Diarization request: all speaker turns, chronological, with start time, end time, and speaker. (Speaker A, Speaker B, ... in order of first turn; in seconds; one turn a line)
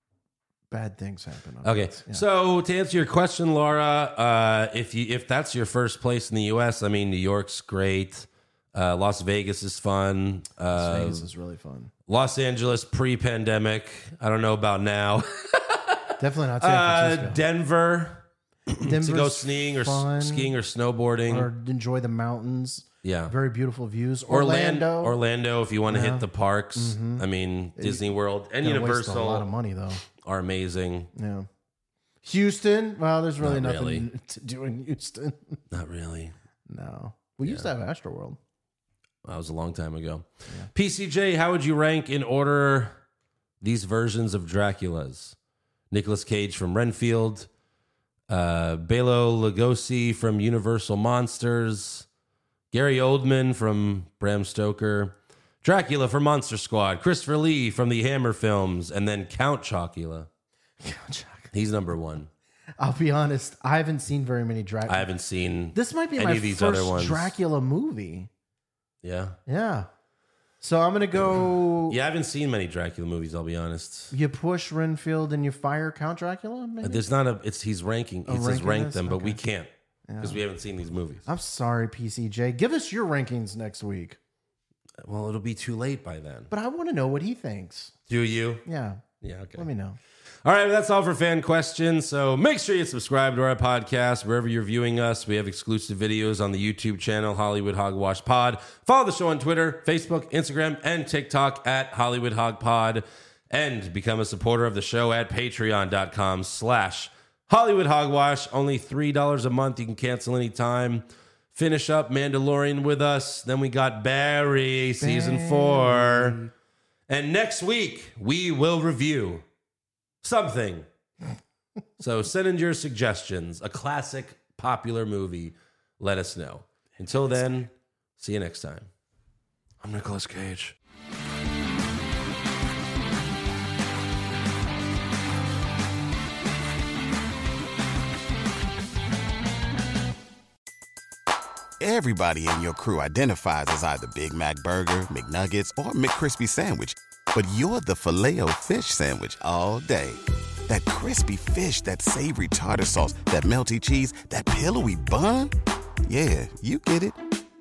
Speaker A: 0.7-2.2
Speaker B: 1.6-11.2
Speaker A: 10.7-11.9
Speaker B: 12.1-21.5
Speaker A: 16.2-17.4
Speaker A: 18.8-20.5
Speaker A: 21.3-25.1
Speaker B: 23.0-23.3
Speaker B: 24.3-29.5
Speaker A: 25.9-27.2
Speaker A: 27.8-28.1
Speaker A: 28.6-30.0
Speaker B: 30.1-31.1
Speaker A: 31.1-31.5
Speaker A: 32.2-35.6
Speaker B: 33.4-34.0
Speaker B: 35.7-36.3
Speaker A: 36.7-38.4
Speaker B: 39.2-43.0
Speaker B: 43.6-45.4
Speaker B: 45.9-47.5
Speaker B: 48.3-52.0
Speaker B: 52.7-60.3
Speaker A: 60.8-61.5
Speaker B: 61.5-62.3
Speaker A: 62.8-65.1
Speaker B: 64.9-67.3
Speaker A: 65.7-68.3
Speaker B: 69.0-69.4
Speaker A: 69.5-69.9
Speaker A: 70.6-72.0
Speaker B: 71.9-74.1
Speaker A: 74.1-77.0
Speaker B: 76.8-79.7
Speaker A: 78.2-79.4
Speaker A: 80.1-80.4
Speaker B: 80.2-81.2
Speaker A: 81.2-84.2
Speaker B: 85.0-86.5
Speaker A: 86.5-87.9
Speaker B: 88.1-88.6
Speaker A: 88.7-89.0
Speaker B: 89.2-89.7
Speaker A: 89.6-90.0
Speaker B: 90.4-116.4
Speaker A: 115.0-116.5
Speaker B: 117.1-119.4
Speaker B: 120.2-120.9
Speaker B: 122.0-128.9
Speaker B: 129.8-130.7
Speaker C: 141.8-155.5
Speaker C: 156.1-157.2